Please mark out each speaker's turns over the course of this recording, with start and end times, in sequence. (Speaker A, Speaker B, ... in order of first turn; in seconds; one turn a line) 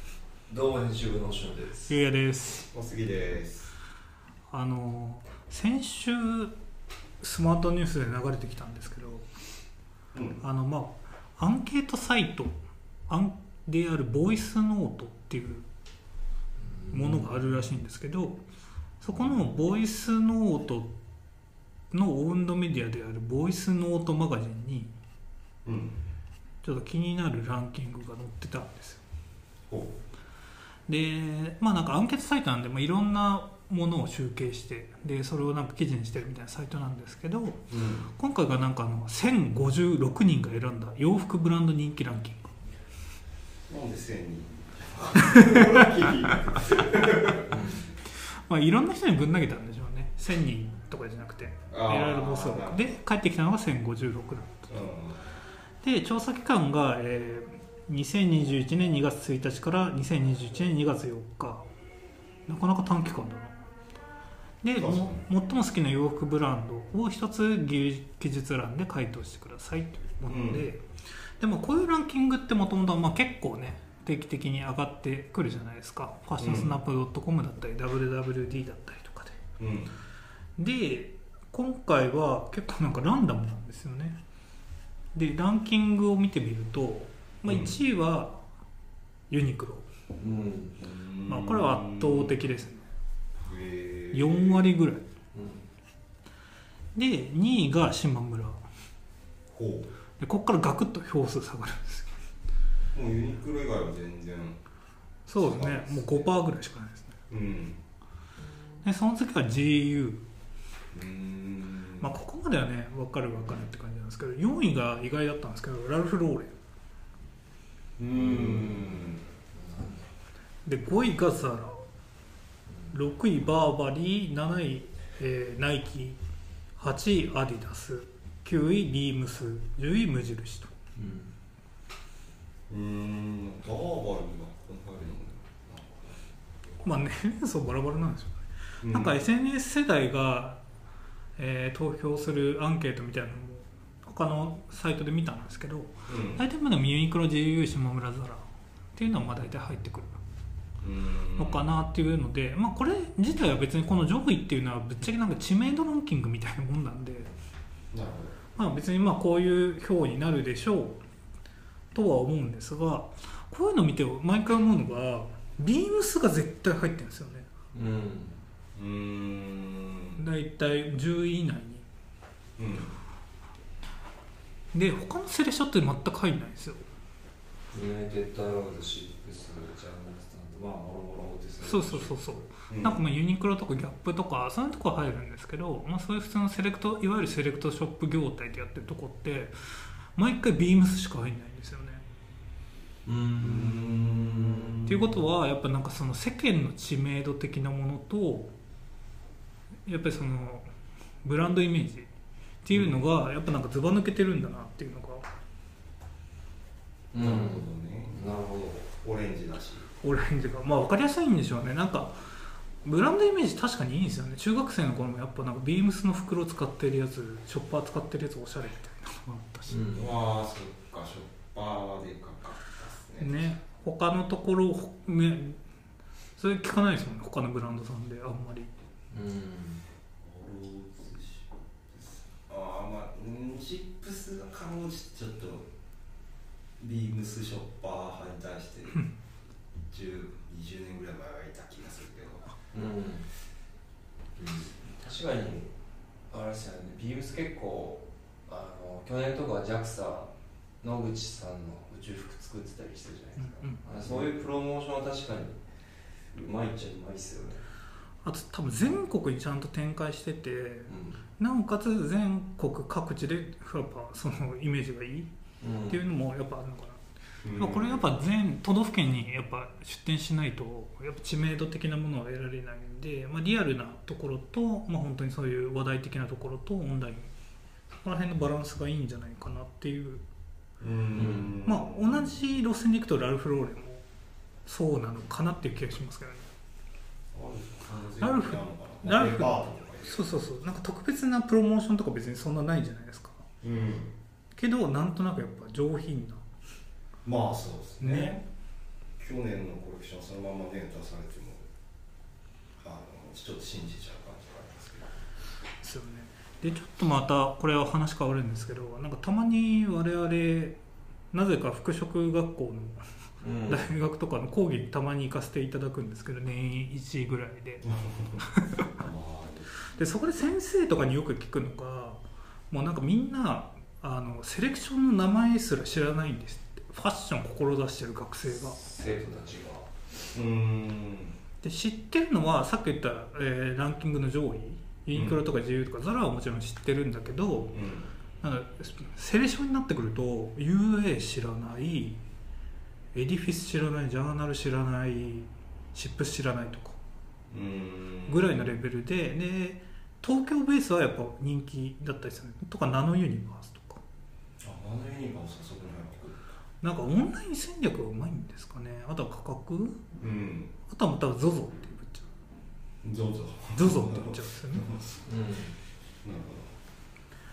Speaker A: 0.5-1.9
Speaker B: 1.9-2.7
Speaker C: 2.7-3.7
Speaker B: 4.5-6.5
Speaker B: 7.2-9.3
Speaker C: 10.1-10.4
Speaker B: 10.4-12.6
Speaker B: 13.1-15.7
Speaker A: 16.9-17.2
Speaker B: 16.9-18.4
Speaker B: 19.0-20.9
Speaker B: 21.9-24.9
Speaker C: 25.6-26.0
Speaker B: 26.6-29.0
Speaker C: 29.7-29.9
Speaker B: 30.9-42.6
Speaker C: 37.7-38.1
Speaker C: 43.7-47.6
Speaker B: 45.4-45.6
Speaker A: 47.5-47.8
Speaker B: 48.1-54.7
Speaker C: 51.7-53.0
Speaker C: 54.7-55.3
Speaker B: 55.8-61.7
Speaker B: 62.5-63.6
Speaker B: 64.6-70.8
Speaker C: 64.8-65.2
Speaker C: 70.3-70.6
Speaker B: 71.4-79.4
Speaker C: 76.4-76.8
Speaker C: 79.6-79.9
Speaker B: 80.6-84.2
Speaker B: 85.1-88.4
Speaker C: 87.5-87.8
Speaker B: 89.3-89.9
Speaker A: 90.2-90.8
Speaker C: 90.8-92.4
Speaker B: 91.3-92.9
Speaker C: 93.5-94.7
Speaker B: 94.1-95.0
Speaker A: 95.3-95.7
Speaker B: 97.0-98.6
Speaker C: 99.5-99.9
Speaker B: 100.2-102.2
Speaker C: 102.9-104.6
Speaker B: 105.3-107.2
Speaker C: 105.4-106.3
Speaker C: 107.3-107.8
Speaker B: 108.8-110.2
Speaker C: 110.9-112.1
Speaker B: 112.0-116.5
Speaker C: 118.0-119.2
Speaker A: 118.2-120.1
Speaker B: 120.7-121.8
Speaker B: 122.9-126.2
Speaker B: 126.8-130.7
Speaker A: 131.0-131.3
Speaker C: 132.7-136.2
Speaker B: 136.8-140.6
Speaker C: 138.8-139.2
Speaker B: 141.4-150.2
Speaker C: 146.1-146.4
Speaker C: 150.8-151.7
Speaker B: 151.4-157.3
Speaker C: 157.9-158.4
Speaker B: 158.6-161.0
Speaker B: 161.9-167.5
Speaker A: 167.7-168.4
Speaker C: 168.8-170.2
Speaker B: 170.2-171.8
Speaker C: 172.6-172.9
Speaker B: 174.7-176.9
Speaker A: 177.7-182.4
Speaker B: 181.6-192.0
Speaker C: 182.7-183.0
Speaker A: 193.1-194.7
Speaker C: 193.4-195.0
Speaker B: 194.8-198.5
Speaker B: 199.9-200.7
Speaker B: 201.2-202.1
Speaker B: 202.6-205.3
Speaker C: 202.7-203.0
Speaker A: 207.1-208.9
Speaker C: 207.2-208.3
Speaker C: 209.0-209.9
Speaker B: 210.0-212.2
Speaker B: 212.8-219.9
Speaker A: 219.7-220.1
Speaker C: 219.9-223.6
Speaker B: 223.2-225.6
Speaker B: 226.4-228.7
Speaker A: 229.1-229.8
Speaker C: 230.2-235.7
Speaker C: 236.8-239.0
Speaker C: 239.9-242.5
Speaker A: 242.7-243.3
Speaker A: 244.4-245.7
Speaker A: 246.3-250.3
Speaker A: 250.8-255.6
Speaker B: 253.4-253.8
Speaker C: 254.0-254.3
Speaker A: 256.3-257.6
Speaker B: 258.2-265.3
Speaker A: 260.9-261.2
Speaker A: 265.6-266.0
Speaker B: 265.9-267.0
Speaker C: 267.4-268.1
Speaker B: 267.6-277.3
Speaker B: 278.0-280.2
Speaker C: 280.8-282.4
Speaker A: 281.2-281.5
Speaker B: 281.6-284.0
Speaker B: 284.7-286.5
Speaker C: 287.3-290.3
Speaker B: 288.2-293.4
Speaker C: 293.6-294.1
Speaker B: 294.6-296.4
Speaker C: 297.2-298.4
Speaker B: 298.0-298.4
Speaker C: 299.2-301.7
Speaker C: 302.8-305.2
Speaker B: 305.8-310.8
Speaker B: 311.3-317.9
Speaker A: 313.4-313.9
Speaker C: 317.8-318.4
Speaker B: 318.4-318.8
Speaker C: 319.0-319.7
Speaker B: 319.9-328.8
Speaker A: 328.5-329.9
Speaker C: 330.3-331.4
Speaker B: 331.6-337.7
Speaker C: 335.1-335.4
Speaker C: 337.7-338.1
Speaker B: 338.4-342.2
Speaker B: 343.1-347.0
Speaker C: 347.5-348.7
Speaker B: 348.3-354.0
Speaker C: 354.6-356.4
Speaker B: 356.8-360.0
Speaker C: 360.2-360.7
Speaker B: 360.9-362.3
Speaker C: 363.0-365.3
Speaker B: 363.8-364.9
Speaker A: 365.3-365.8
Speaker C: 366.2-366.8